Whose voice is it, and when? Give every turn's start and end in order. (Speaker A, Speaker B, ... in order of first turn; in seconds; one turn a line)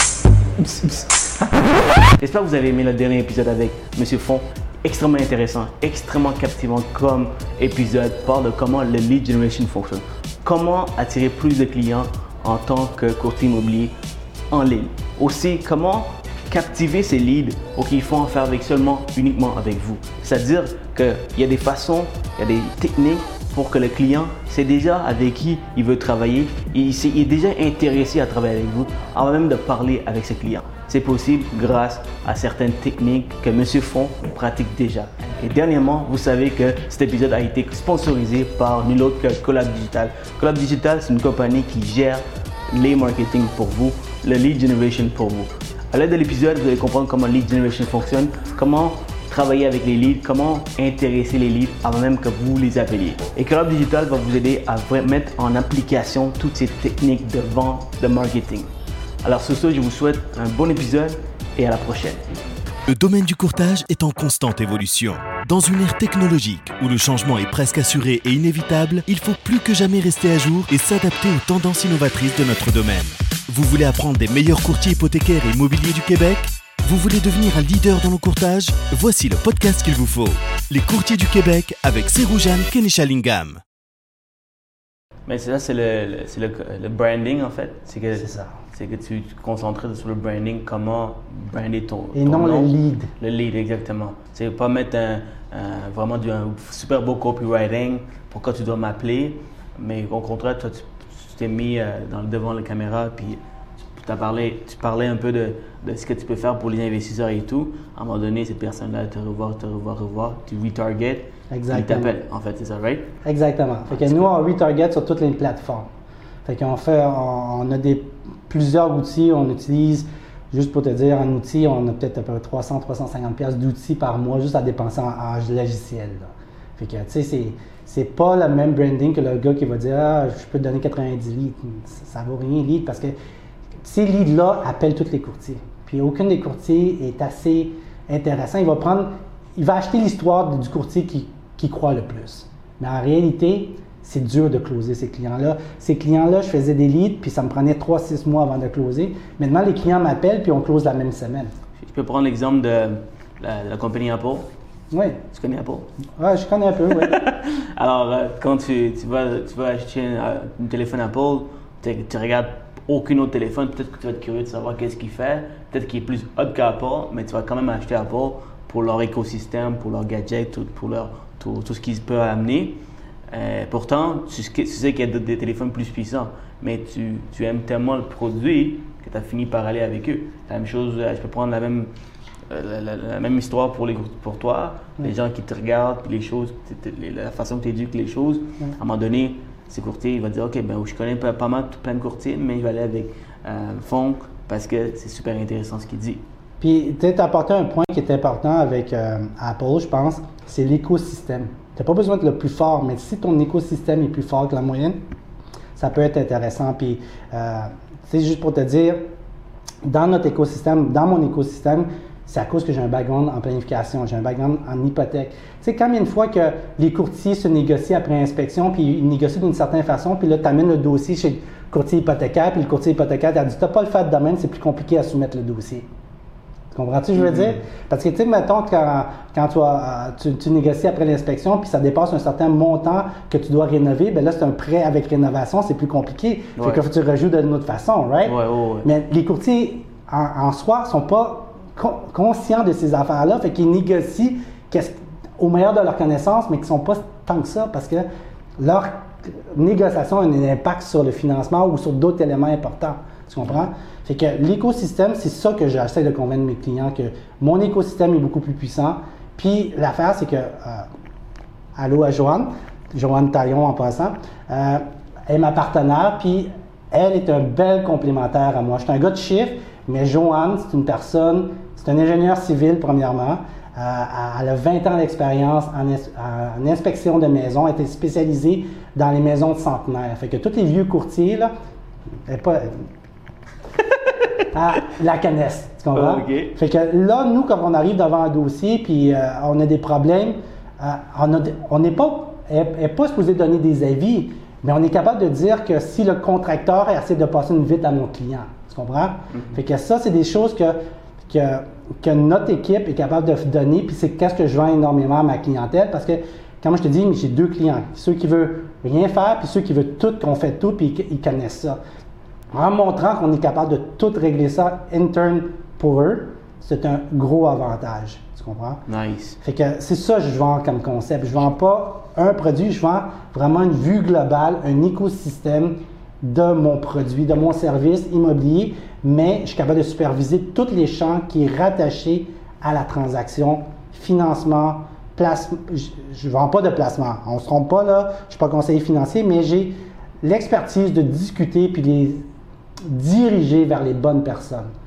Speaker A: 0.6-1.2
Speaker A: 2.1-13.9
Speaker A: 14.5-58.7
Speaker A: 59.2-62.2
Speaker B: 62.9-83.6
Speaker A: 85.3-103.4
Speaker C: 88.2-88.6
Speaker C: 92.1-93.1
Speaker A: 104.0-113.1
Speaker C: 111.5-112.1
Speaker C: 113.2-115.9
Speaker A: 113.9-114.3
Speaker C: 116.5-133.2
Speaker C: 133.8-151.5
Speaker A: 151.8-154.5
Speaker C: 154.9-155.2
Speaker A: 155.3-155.9
Speaker C: 156.2-157.2
Speaker A: 156.9-181.9
Speaker A: 182.5-196.2
Speaker C: 196.6-205.0
Speaker C: 205.8-209.0
Speaker C: 209.8-225.9
Speaker C: 226.7-248.1
Speaker A: 227.2-227.6
Speaker A: 236.6-236.8
Speaker A: 238.2-238.9
Speaker C: 248.6-260.9
Speaker A: 253.4-253.7
Speaker C: 261.8-281.5
Speaker C: 282.3-282.8
Speaker A: 283.8-284.4
Speaker C: 284.5-311.8
Speaker A: 285.9-286.6
Speaker A: 299.3-299.6
Speaker C: 312.5-318.8
Speaker A: 318.9-319.4
Speaker C: 319.4-342.3
Speaker C: 342.9-344.7